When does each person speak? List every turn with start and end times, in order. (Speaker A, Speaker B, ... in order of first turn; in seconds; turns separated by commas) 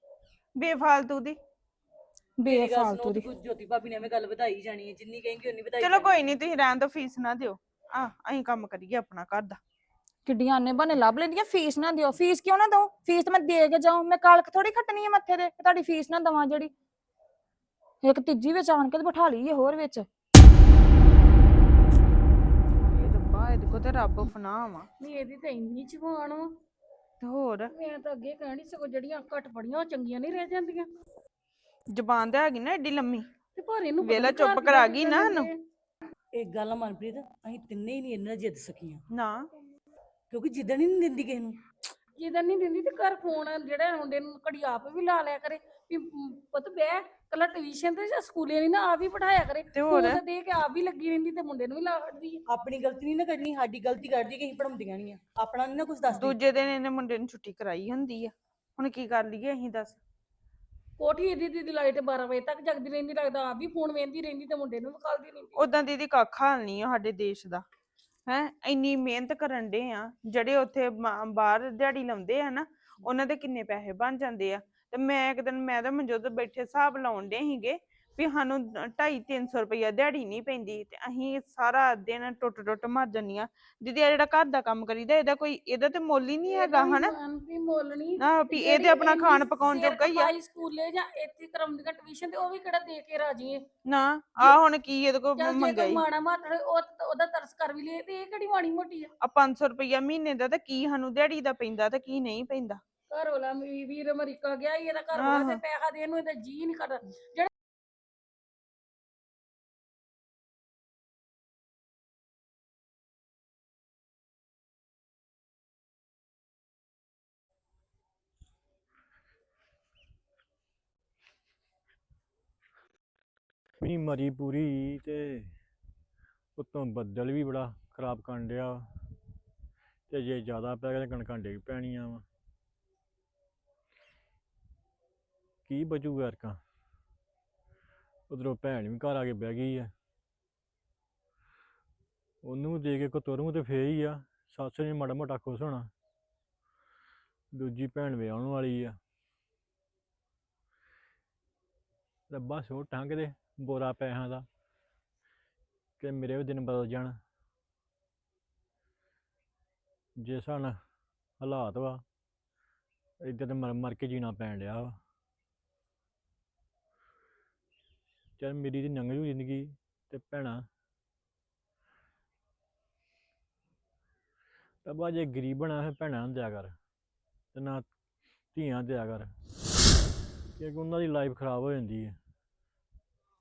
Speaker A: 0.6-1.4, Speaker B: 2.4-3.3, Speaker C: 2.4-6.2, Speaker A: 5.8-9.6, Speaker B: 10.3-16.7, Speaker B: 18.0-20.1, Speaker A: 22.8-24.9, Speaker D: 25.0-26.5, Speaker A: 27.2-27.7, Speaker D: 27.7-30.9, Speaker A: 31.9-33.3, Speaker D: 33.5-35.6, Speaker A: 34.0-35.5, Speaker C: 36.3-39.0, Speaker A: 39.1-39.5, Speaker C: 40.3-41.6, Speaker D: 42.2-52.4, Speaker A: 49.7-50.2, Speaker C: 52.5-56.4, Speaker A: 56.2-60.0, Speaker D: 61.0-65.6, Speaker A: 65.6-67.7, Speaker A: 68.3-87.1, Speaker D: 86.5-93.6, Speaker A: 88.2-90.3, Speaker A: 93.9-96.0, Speaker D: 95.4-99.1, Speaker A: 99.2-102.8, Speaker D: 103.1-107.5, Speaker A: 105.2-105.6, Speaker E: 123.8-125.5, Speaker E: 126.6-128.9, Speaker E: 130.1-132.2, Speaker E: 135.7-136.6, Speaker E: 138.3-139.9, Speaker E: 142.4-145.9, Speaker E: 147.5-149.0, Speaker E: 152.3-154.5, Speaker E: 156.0-157.2, Speaker E: 160.2-160.8, Speaker E: 161.4-162.0, Speaker E: 163.2-165.0, Speaker E: 168.4-170.7, Speaker E: 174.8-176.8, Speaker E: 177.5-177.9, Speaker E: 178.6-179.3, Speaker E: 180.6-182.2